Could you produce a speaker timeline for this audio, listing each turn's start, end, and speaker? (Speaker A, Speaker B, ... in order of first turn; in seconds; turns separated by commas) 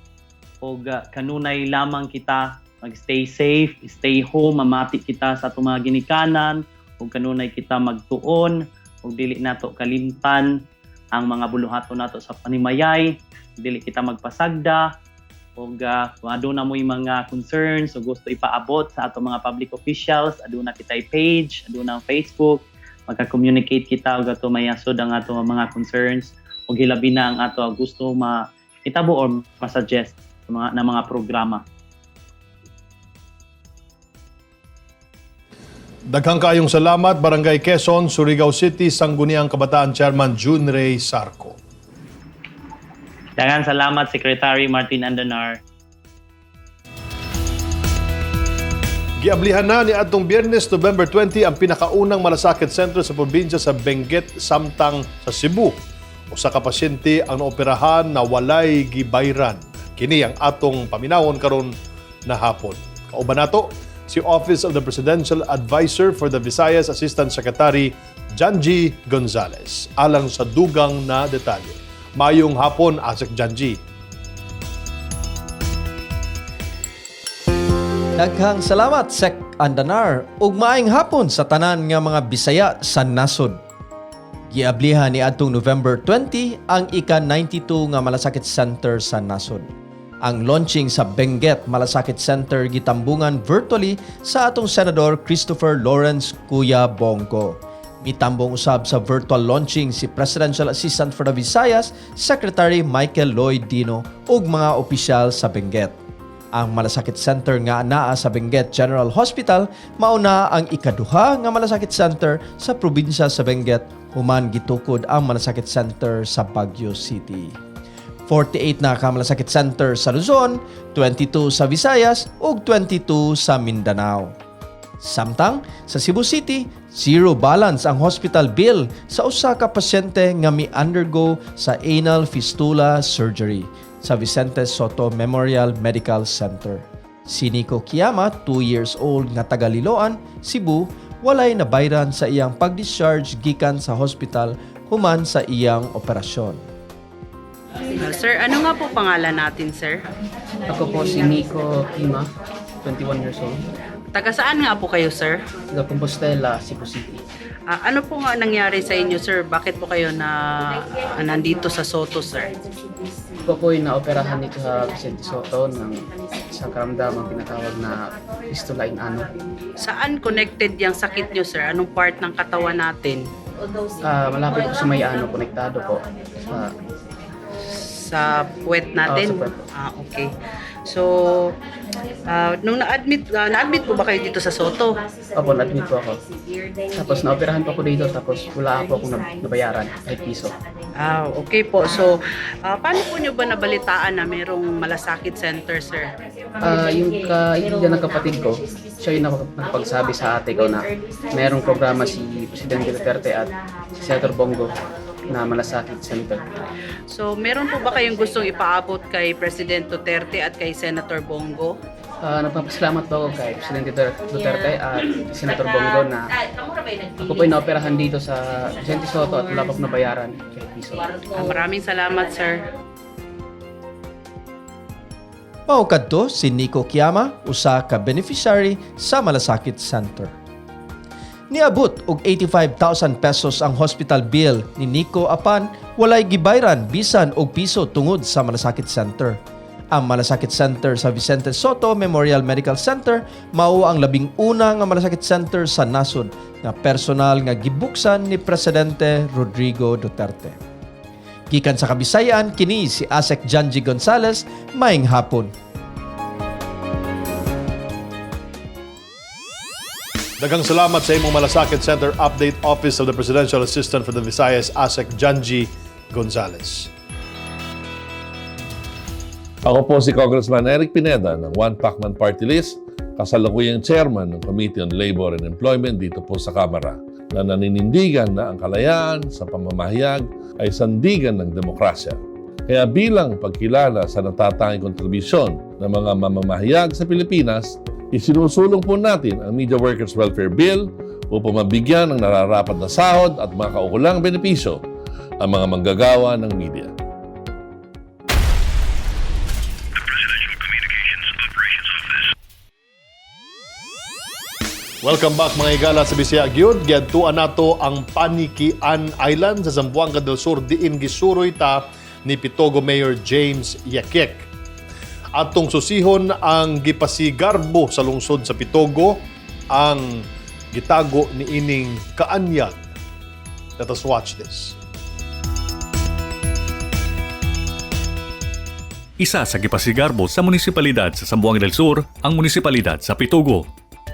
Speaker A: 0.6-10.5, Speaker A: 11.2-14.9, Speaker A: 15.6-31.6, Speaker B: 36.1-41.6, Speaker A: 43.4-45.6, Speaker B: 49.2-55.8, Speaker B: 56.3-61.7, Speaker B: 62.3-73.8, Speaker C: 78.2-83.6, Speaker C: 84.5-89.7, Speaker C: 90.2-106.0, Speaker C: 106.5-117.6, Speaker C: 118.3-124.4, Speaker C: 125.0-146.6, Speaker D: 148.0-150.0, Speaker E: 150.7-152.3, Speaker E: 152.8-153.6, Speaker D: 154.2-155.4, Speaker E: 155.7-157.2, Speaker D: 157.7-162.5, Speaker E: 163.5-169.3, Speaker D: 169.8-173.3, Speaker E: 174.0-176.8, Speaker D: 177.7-180.3, Speaker E: 179.1-179.6, Speaker D: 180.9-181.5, Speaker D: 182.3-185.0, Speaker E: 185.4-186.2, Speaker E: 186.9-190.5, Speaker D: 191.0-192.1, Speaker D: 192.7-196.1, Speaker E: 196.6-206.6, Speaker D: 207.1-211.8, Speaker E: 212.2-216.2, Speaker E: 217.2-221.2, Speaker D: 221.3-222.6, Speaker C: 225.7-230.3, Speaker C: 231.5-239.4, Speaker C: 239.9-250.6, Speaker C: 251.5-255.5, Speaker B: 260.4-266.9, Speaker F: 269.6-294.8, Speaker F: 295.4-296.9, Speaker B: 305.0-314.5, Speaker B: 315.4-322.9, Speaker B: 323.8-324.8, Speaker G: 329.2-333.7